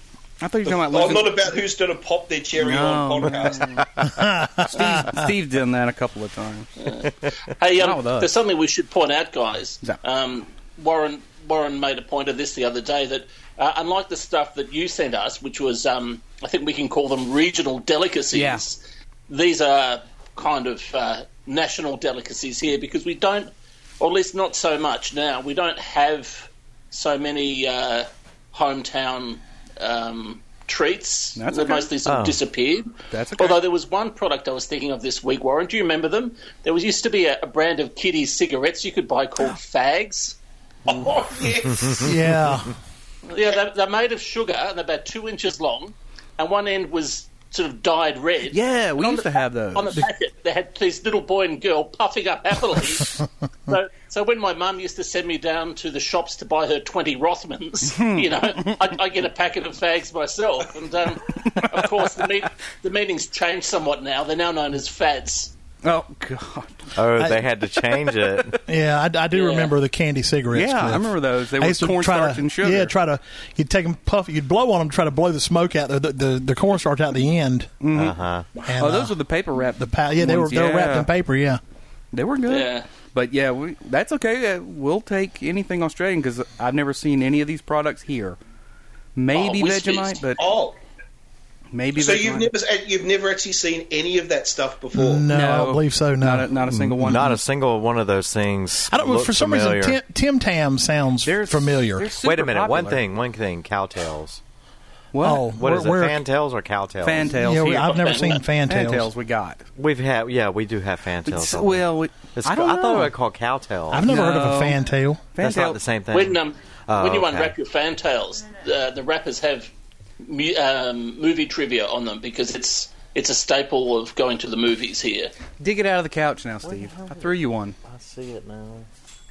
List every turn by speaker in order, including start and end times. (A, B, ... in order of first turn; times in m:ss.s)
0:00.4-0:01.6 A
0:00.6-0:03.7 B
0:02.5-0:03.8 A
0:04.0-0:05.3 C
0:04.7-0:06.7 A
0:06.8-0:41.3 D
0:07.7-0:08.3 A
0:18.3-0:18.6 A
0:31.4-0:31.9 A
0:32.0-0:32.4 E
0:33.1-0:33.6 A
0:40.8-0:42.1 B
0:42.0-0:42.8 C
0:43.2-1:05.5 D
0:48.5-0:50.0 A
0:57.9-0:58.8 A
1:05.8-1:07.0 A
1:06.9-1:08.6 E
1:07.2-1:07.4 C
1:07.8-1:08.6 A
1:08.7-1:17.7 C
1:09.3-1:09.7 D
1:10.5-1:12.9 A
1:17.8-1:21.1 A
1:17.9-1:18.5 E
1:18.7-1:21.6 C
1:22.1-1:28.4 A
1:22.5-1:22.9 D
1:29.2-1:30.4 A
1:29.3-1:30.2 D
1:30.4-1:30.8 B
1:31.7-1:32.5 A
1:31.9-1:35.3 B
1:34.9-1:37.3 C
1:35.3-1:37.4 A
1:37.0-1:40.0 E
1:38.9-1:42.1 C
1:41.2-1:43.0 A
1:42.2-1:44.4 E
1:45.1-1:45.5 A
1:45.2-1:46.2 C
1:45.5-1:47.3 E
1:47.0-1:49.6 A
1:47.3-1:49.1 C
1:47.7-1:48.4 D
1:49.8-1:54.1 E
1:51.2-1:53.1 A
1:53.9-1:55.4 C
1:54.0-1:55.8 A
1:55.4-1:57.5 E
1:56.1-2:05.3 D
2:05.6-2:07.8 A
2:06.6-2:08.9 E